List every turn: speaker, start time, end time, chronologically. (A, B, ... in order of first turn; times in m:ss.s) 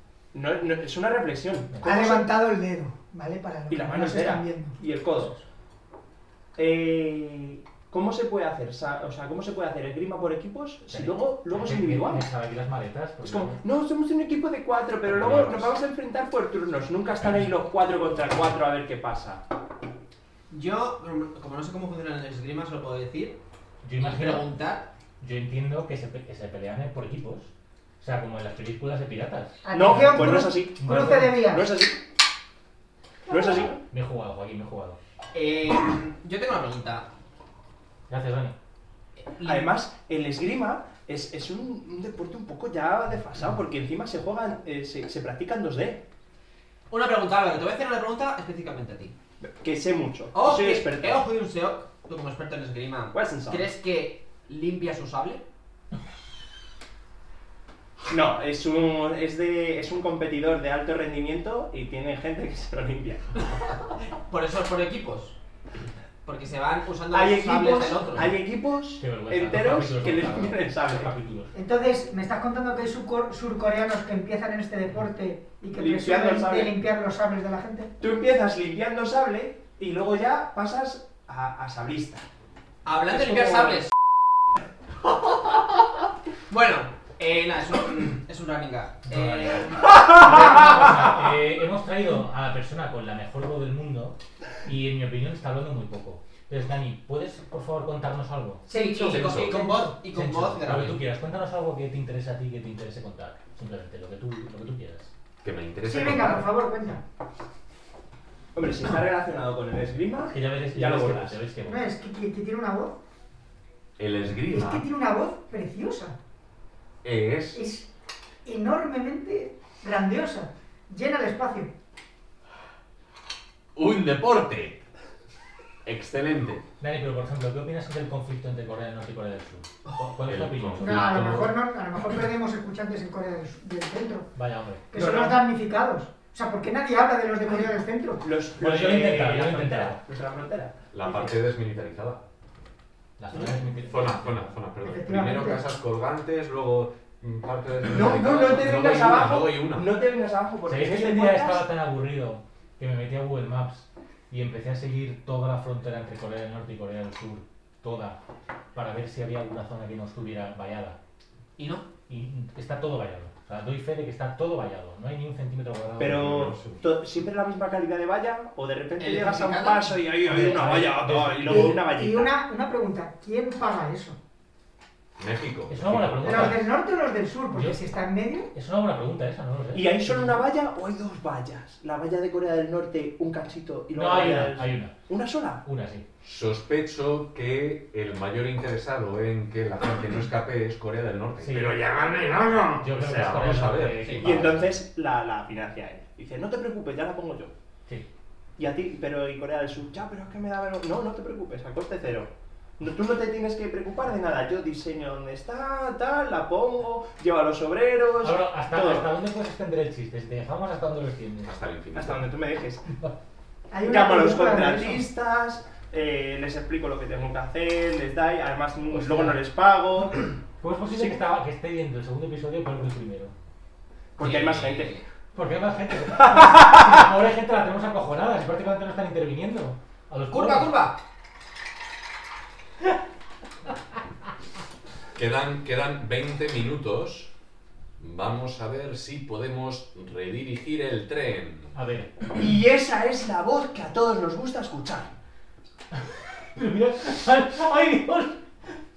0:00.3-0:02.2 A
0:01.7-0:02.1 B
0:01.8-0:05.4 C
0:03.7-0:05.3 A
0:06.6-0:12.2 A
0:10.9-0:13.6 B
0:13.2-0:19.4 A
0:15.0-0:15.7 D
0:20.5-0:23.4 E
0:23.8-0:24.4 B
0:24.0-0:24.9 E
0:25.2-0:31.4 B
0:29.6-0:31.7 C
0:29.7-0:30.8 A
0:31.4-0:32.0 A
0:33.3-0:33.8 A
0:33.9-0:35.0 B
0:35.3-0:37.0 E
0:38.1-0:38.6 B
0:39.2-0:39.7 E
0:39.4-0:46.0 A
0:46.9-0:49.2 E
0:49.4-0:51.2 A
0:50.3-0:55.4 E
0:53.1-0:53.6 A
0:58.1-1:03.3 A
1:04.1-1:05.4 E
1:06.2-1:08.3 E
1:07.1-1:11.1 A
1:09.0-1:11.5 B
1:11.5-1:17.9 C
1:15.7-1:16.8 A
1:18.0-1:22.2 A
1:22.8-1:23.9 E
1:23.1-1:23.8 A
1:26.5-1:31.1 E
1:29.1-1:45.1 B
1:38.7-1:39.9 C
1:38.7-1:41.0 E
1:39.2-1:39.5 D
1:45.4-1:46.4 D
1:45.9-1:47.0 C
1:48.6-1:51.4 A
1:50.3-1:51.9 B
1:51.6-1:53.0 C
1:54.0-1:54.8 D
1:54.5-1:56.2 C
1:57.0-1:57.6 D
1:57.5-1:57.9 C
1:58.4-2:01.7 C
2:03.8-2:04.8 D
2:05.8-2:06.6 D
2:06.8-2:11.3 B
2:10.3-2:11.6 D
2:10.8-2:14.3 C
2:14.3-2:14.9 B
2:14.9-2:18.2 C
2:14.9-2:15.4 A
2:17.4-2:21.3 A
2:18.6-2:20.0 B
2:20.9-2:22.2 D
2:23.2-2:24.5 B
2:23.8-2:29.9 D
2:24.8-2:25.6 C
2:27.9-2:31.6 A
2:30.6-2:38.2 B
2:38.7-2:41.0 B
2:41.6-2:41.9 E
2:42.1-2:46.6 B
2:46.0-2:52.3 A
2:46.1-2:46.8 D
2:49.0-2:50.0 E
2:50.2-2:51.8 B
2:51.5-2:54.2 C
2:55.2-2:56.6 D
2:55.7-2:56.7 B
2:56.2-2:58.5 C
2:57.5-2:57.8 B
2:58.5-3:00.4 B
2:59.7-3:05.6 A
3:03.9-3:04.9 B
3:05.6-3:06.0 B
3:06.2-3:14.6 D
3:11.4-3:12.0 B
3:12.7-3:14.7 B
3:14.2-3:17.5 A
3:18.6-3:29.1 A
3:28.2-3:31.5 B
3:31.4-3:32.2 D
3:31.9-3:32.8 A
3:33.7-3:35.0 C
3:33.8-3:40.3 A
3:38.9-3:39.4 B
3:40.6-3:43.3 B
3:44.2-3:44.9 A
3:44.2-3:45.0 E
3:45.3-3:50.7 B
3:46.4-3:46.6 A
3:50.3-3:51.0 E
3:55.1-3:57.3 D
3:58.0-4:01.7 D
4:01.7-4:02.2 B
4:02.4-4:05.1 A
4:06.0-4:08.4 B